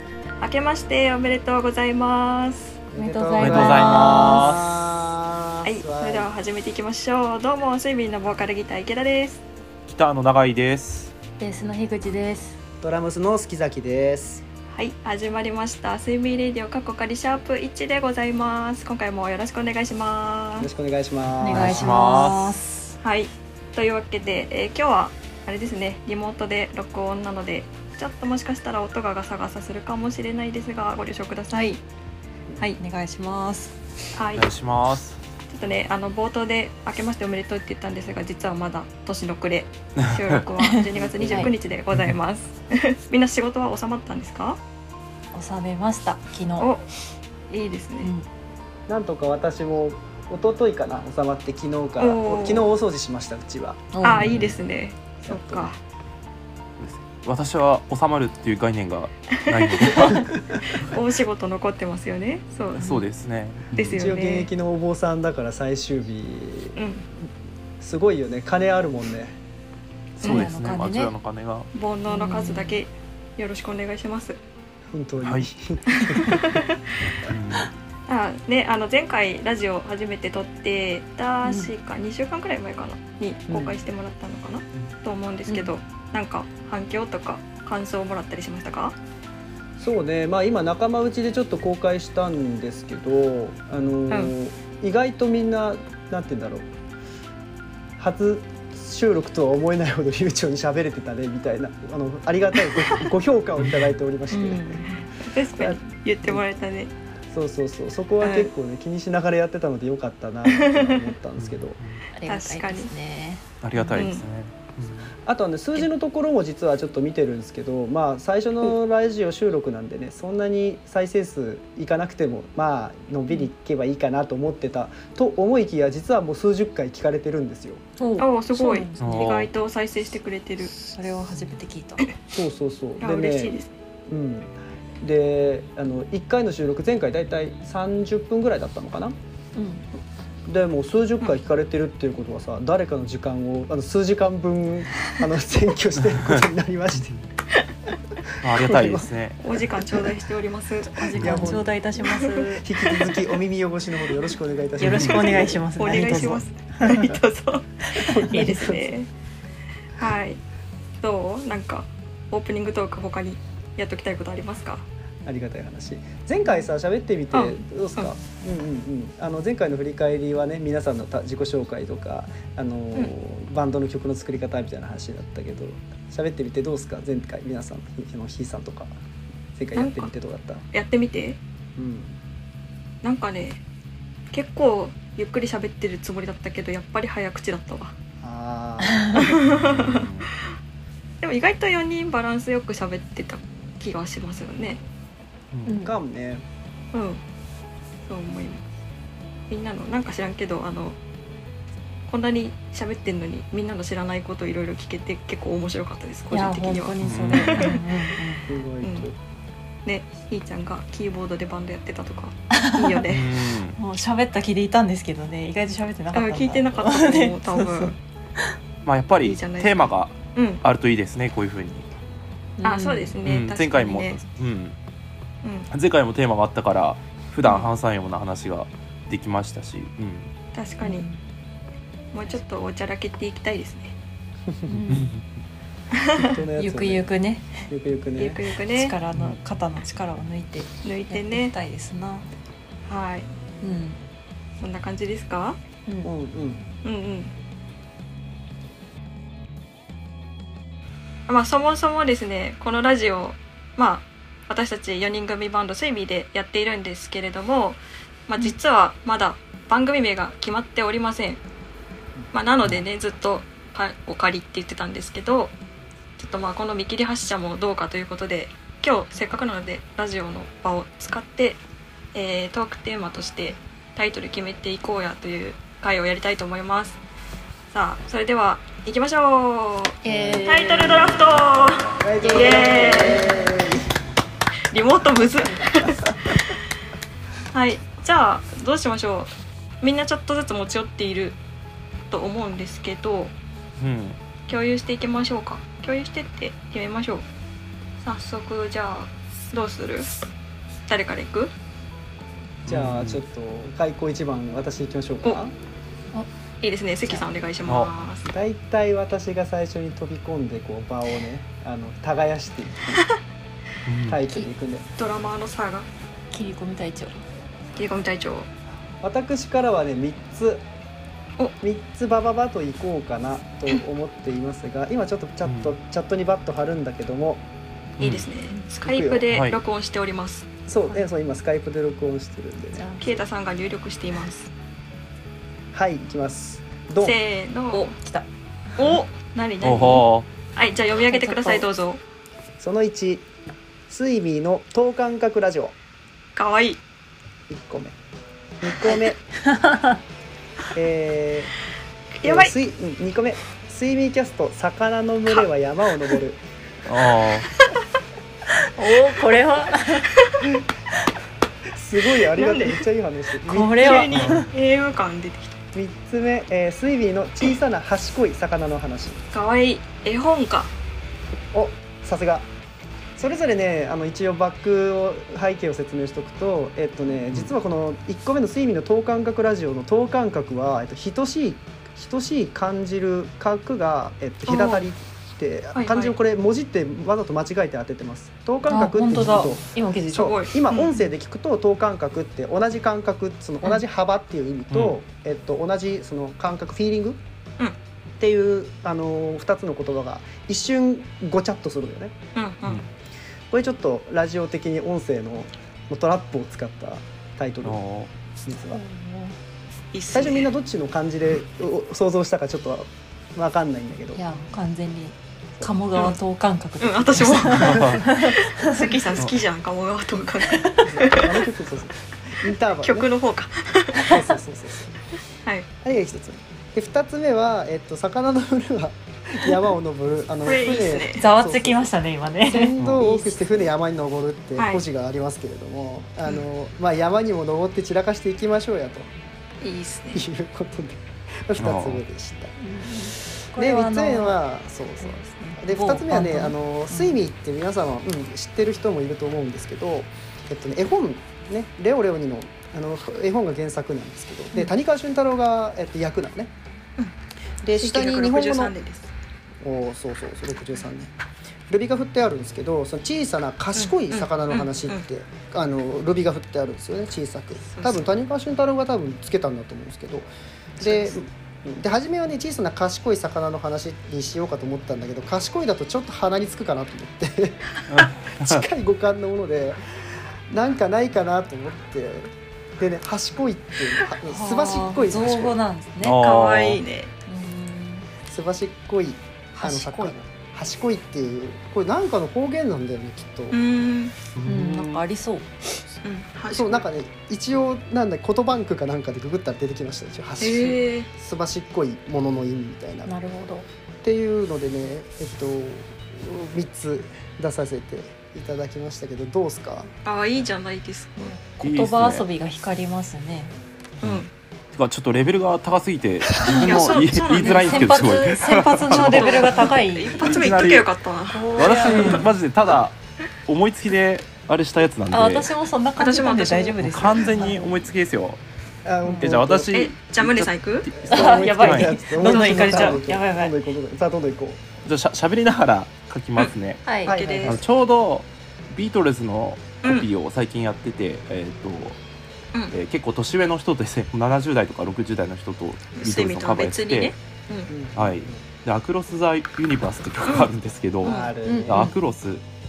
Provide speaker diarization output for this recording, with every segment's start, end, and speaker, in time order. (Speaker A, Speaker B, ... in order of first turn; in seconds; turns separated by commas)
Speaker A: 0.4-2.8, Speaker B: 2.9-6.3, Speaker C: 3.0-4.6, Speaker D: 3.4-4.8, Speaker A: 5.6-9.4, Speaker D: 9.9-11.1, Speaker C: 11.4-12.6, Speaker B: 12.8-14.4, Speaker A: 14.7-20.7, Speaker B: 20.6-21.9, Speaker D: 21.4-22.6, Speaker C: 21.4-22.9, Speaker A: 23.0-31.8, Speaker C: 32.8-33.8, Speaker A: 34.1-34.5, Speaker D: 34.3-35.2, Speaker A: 35.5-44.6, Speaker D: 40.1-40.4, Speaker C: 40.6-41.5, Speaker B: 40.9-41.5, Speaker C: 45.3-46.7, Speaker A: 46.6-46.9, Speaker A: 47.5-48.1, Speaker B: 48.9-53.9, Speaker A: 52.0-52.7, Speaker C: 53.9-54.5, Speaker A: 54.0-55.8, Speaker D: 54.2-54.6, Speaker B: 55.2-55.7, Speaker D: 56.8-61.0, Speaker A: 59.4-63.0, Speaker D: 62.8-64.1, Speaker C: 62.8-63.1, Speaker A: 63.7-64.5, Speaker B: 63.9-66.8, Speaker C: 64.2-64.5, Speaker A: 66.8-67.0, Speaker B: 67.8-69.4, Speaker D: 70.2-71.7, Speaker C: 70.2-71.1, Speaker A: 70.2-70.5, Speaker A: 71.7-74.4, Speaker C: 72.1-72.8, Speaker B: 74.9-76.6, Speaker D: 75.2-75.5, Speaker A: 76.1-76.9, Speaker D: 77.3-77.7, Speaker A: 78.1-89.0, Speaker C: 81.4-81.7, Speaker B: 83.5-83.8, Speaker B: 89.8-96.7, Speaker B: 98.0-104.8, Speaker D: 103.6-104.0, Speaker C: 104.3-105.0, Speaker A: 105.2-106.9, Speaker B: 105.6-106.4, Speaker B: 107.3-111.8, Speaker A: 108.2-108.5, Speaker A: 110.5-111.1, Speaker D: 111.4-112.0, Speaker C: 112.2-114.1, Speaker A: 112.3-112.9, Speaker D: 113.6-115.2, Speaker A: 113.9-114.2, Speaker B: 115.2-127.8, Speaker C: 128.0-129.2, Speaker A: 128.2-130.7, Speaker D: 129.0-129.5, Speaker C: 130.7-132.1, Speaker B: 132.3-133.6, Speaker A: 133.0-133.7, Speaker B: 134.1-139.2, Speaker C: 139.6-139.8, Speaker B: 140.5-147.2, Speaker D: 146.1-146.4, Speaker D: 148.4-149.4, Speaker B: 148.4-149.1, Speaker A: 149.4-152.3, Speaker B: 149.8-150.2, Speaker C: 150.9-152.7, Speaker B: 151.1-151.8, Speaker B: 152.6-157.2, Speaker C: 154.8-157.1, Speaker D: 154.8-155.1, Speaker A: 155.1-159.1, Speaker C: 157.8-158.8, Speaker B: 158.0-158.9, Speaker A: 160.0-160.4, Speaker A: 161.0-164.8, Speaker B: 165.2-178.9, Speaker A: 167.3-168.2, Speaker B: 179.6-180.6, Speaker A: 179.7-180.1, Speaker A: 180.7-181.4, Speaker B: 181.8-182.2, Speaker A: 183.0-183.6, Speaker A: 184.3-187.9, Speaker B: 188.2-189.4, Speaker C: 188.8-189.2, Speaker A: 189.1-190.3, Speaker D: 189.4-190.3, Speaker A: 191.2-194.8, Speaker D: 195.5-195.8, Speaker C: 195.7-195.9, Speaker B: 195.8-196.4, Speaker A: 196.9-197.2, Speaker A: 198.1-198.6, Speaker A: 199.5-201.0, Speaker A: 202.1-207.8, Speaker C: 206.3-208.5, Speaker D: 207.0-207.7, Speaker B: 208.5-209.2, Speaker A: 208.8-209.1, Speaker A: 209.8-213.6, Speaker C: 212.5-213.0, Speaker D: 213.1-213.8, Speaker C: 213.8-218.5, Speaker A: 216.1-218.0, Speaker D: 218.8-221.9, Speaker A: 219.2-220.6, Speaker C: 222.6-223.2, Speaker A: 222.6-224.2, Speaker D: 223.2-224.8, Speaker A: 225.4-225.7, Speaker D: 225.7-230.3, Speaker A: 227.4-227.7, Speaker A: 230.5-231.1, Speaker C: 230.8-231.2, Speaker A: 232.1-233.9, Speaker B: 234.5-234.8, Speaker C: 234.7-235.1, Speaker D: 234.9-235.2, Speaker A: 236.0-236.4, Speaker B: 236.2-237.1, Speaker C: 236.6-237.7, Speaker B: 237.7-238.4, Speaker A: 238.2-239.0, Speaker C: 238.7-242.3, Speaker A: 240.8-241.5, Speaker A: 242.9-243.3, Speaker C: 243.6-244.0, Speaker A: 244.6-245.6, Speaker C: 245.9-246.1, Speaker B: 246.0-246.7, Speaker A: 246.8-247.3, Speaker A: 251.3-261.4, Speaker A: 262.3-265.5, Speaker A: 266.2-271.6, Speaker A: 272.1-277.0, Speaker A: 277.7-283.3, Speaker C: 280.0-281.1, Speaker B: 280.1-281.1, Speaker D: 281.2-281.9, Speaker B: 282.0-283.9, Speaker C: 282.2-283.3, Speaker A: 284.7-286.6, Speaker B: 285.4-286.1, Speaker A: 287.5-291.4, Speaker A: 292.1-293.3, Speaker D: 293.8-294.2, Speaker A: 294.5-297.2, Speaker A: 298.0-300.1, Speaker A: 300.9-301.5, Speaker D: 302.6-303.2, Speaker B: 302.7-305.5, Speaker A: 306.6-308.3, Speaker D: 307.6-307.9, Speaker B: 308.2-313.1, Speaker D: 313.9-314.2, Speaker B: 314.1-314.9, Speaker A: 315.0-315.9, Speaker C: 316.3-317.2, Speaker A: 317.8-318.5, Speaker B: 319.0-320.6, Speaker B: 321.6-327.4, Speaker D: 325.5-325.7, Speaker D: 328.0-328.3, Speaker A: 328.0-330.5, Speaker B: 328.8-329.3, Speaker D: 329.3-329.6, Speaker B: 330.7-333.0, Speaker C: 332.8-333.1, Speaker A: 333.0-334.5, Speaker B: 335.7-337.2, Speaker A: 337.0-337.9, Speaker C: 337.7-338.8, Speaker A: 338.8-342.0, Speaker D: 339.6-340.3, Speaker C: 341.1-341.7, Speaker B: 342.6-343.3, Speaker B: 343.9-345.8, Speaker A: 346.4-346.8, Speaker B: 347.5-348.0, Speaker B: 348.6-349.2, Speaker C: 349.4-350.0, Speaker B: 350.7-351.5, Speaker A: 352.2-352.5, Speaker B: 352.2-356.4, Speaker D: 356.9-357.5, Speaker C: 358.6-360.1, Speaker B: 361.7-364.1, Speaker A: 362.2-362.8, Speaker C: 363.4-364.5, Speaker A: 363.6-365.6, Speaker D: 364.1-364.5, Speaker B: 365.7-369.2, Speaker A: 369.3-370.7, Speaker B: 371.5-372.5, Speaker B: 373.2-397.2, Speaker A: 384.5-384.8, Speaker A: 385.8-386.2, Speaker C: 388.7-390.3, Speaker A: 390.1-391.0, Speaker D: 394.7-395.0, Speaker B: 398.2-402.1, Speaker A: 402.4-402.8, Speaker B: 403.5-407.8, Speaker D: 407.6-408.1, Speaker B: 408.4-408.8, Speaker C: 408.7-409.4, Speaker A: 409.9-410.5, Speaker B: 410.1-414.2, Speaker C: 414.1-419.1, Speaker A: 416.8-421.4, Speaker D: 417.5-418.0, Speaker C: 420.5-420.9, Speaker B: 420.9-423.1, Speaker A: 422.7-424.2, Speaker B: 423.9-425.0, Speaker B: 425.8-431.9, Speaker A: 430.4-431.2, Speaker C: 431.2-433.4, Speaker B: 432.5-439.1, Speaker D: 432.8-433.1, Speaker A: 434.6-434.8, Speaker A: 439.6-440.3, Speaker B: 440.1-442.5, Speaker D: 441.6-442.0, Speaker C: 442.6-444.4, Speaker B: 443.5-456.5, Speaker C: 445.0-447.2, Speaker B: 457.6-458.7, Speaker A: 457.8-459.1, Speaker B: 459.6-461.1, Speaker B: 461.7-470.3, Speaker A: 463.8-465.0, Speaker A: 467.7-468.1, Speaker A: 470.8-471.1, Speaker B: 470.8-477.6, Speaker D: 477.9-478.6, Speaker B: 478.4-479.8, Speaker B: 480.5-485.6, Speaker C: 484.3-486.2, Speaker D: 486.0-486.8, Speaker A: 486.1-487.1, Speaker C: 487.3-488.1, Speaker B: 488.3-493.6, Speaker C: 489.6-490.2, Speaker A: 493.5-494.2, Speaker D: 494.4-495.0, Speaker C: 494.4-495.5, Speaker A: 496.0-496.8, Speaker B: 496.5-503.1, Speaker A: 500.4-501.1, Speaker C: 503.1-503.7, Speaker B: 504.0-509.9, Speaker A: 510.1-511.4, Speaker C: 511.2-513.5, Speaker D: 511.6-512.2, Speaker A: 514.0-514.3, Speaker D: 514.0-520.9, Speaker A: 516.6-522.3, Speaker C: 517.4-520.7, Speaker C: 521.3-522.3, Speaker D: 521.6-525.5, Speaker C: 525.1-527.7, Speaker A: 526.0-527.2, Speaker D: 526.8-528.4, Speaker B: 528.9-529.7, Speaker C: 529.0-529.3, Speaker D: 529.2-532.0, Speaker A: 529.7-530.9, Speaker B: 530.9-534.7, Speaker C: 531.1-533.6, Speaker A: 532.2-533.0, Speaker D: 534.9-536.8, Speaker C: 536.9-537.2, Speaker B: 537.0-537.6, Speaker A: 537.0-537.6, Speaker D: 537.5-542.0, Speaker A: 539.8-540.1, Speaker D: 542.7-547.1, Speaker A: 546.0-547.7, Speaker B: 547.7-548.5, Speaker D: 548.0-552.4, Speaker A: 550.2-550.5, Speaker A: 551.0-551.3, Speaker B: 551.0-551.9, Speaker C: 551.4-551.9